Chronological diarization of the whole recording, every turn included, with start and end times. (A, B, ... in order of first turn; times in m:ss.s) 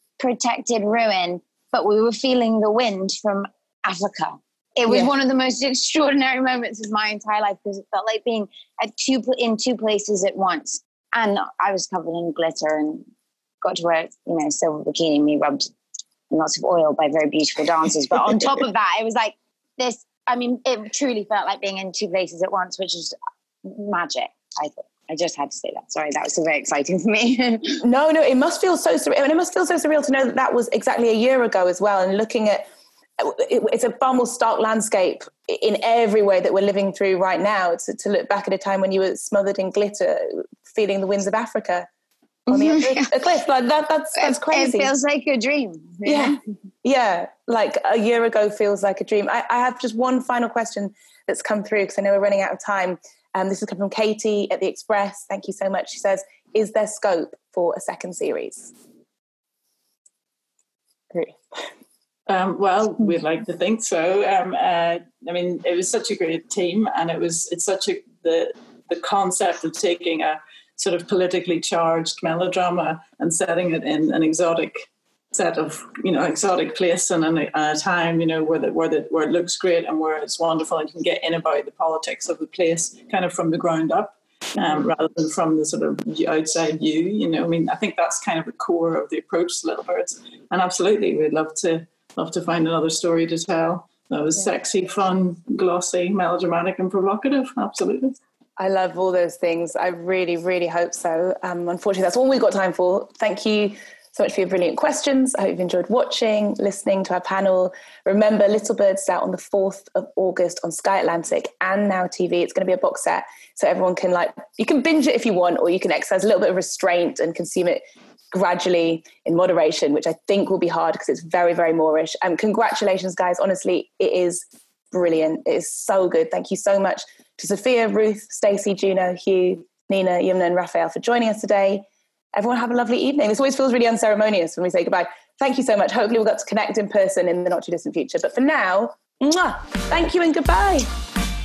0:00.2-0:13.0 A
0:13.6-0:15.7 A
0:16.3-0:27.8 A
0:27.8-0:32.6 B
0:33.2-0:41.9 B
0:42.5-0:43.1 A
0:42.5-0:44.9 B
0:44.2-0:46.4 A
0:46.0-0:58.7 B
1:01.1-1:01.4 B
1:02.3-1:38.2 C
1:38.6-2:20.9 B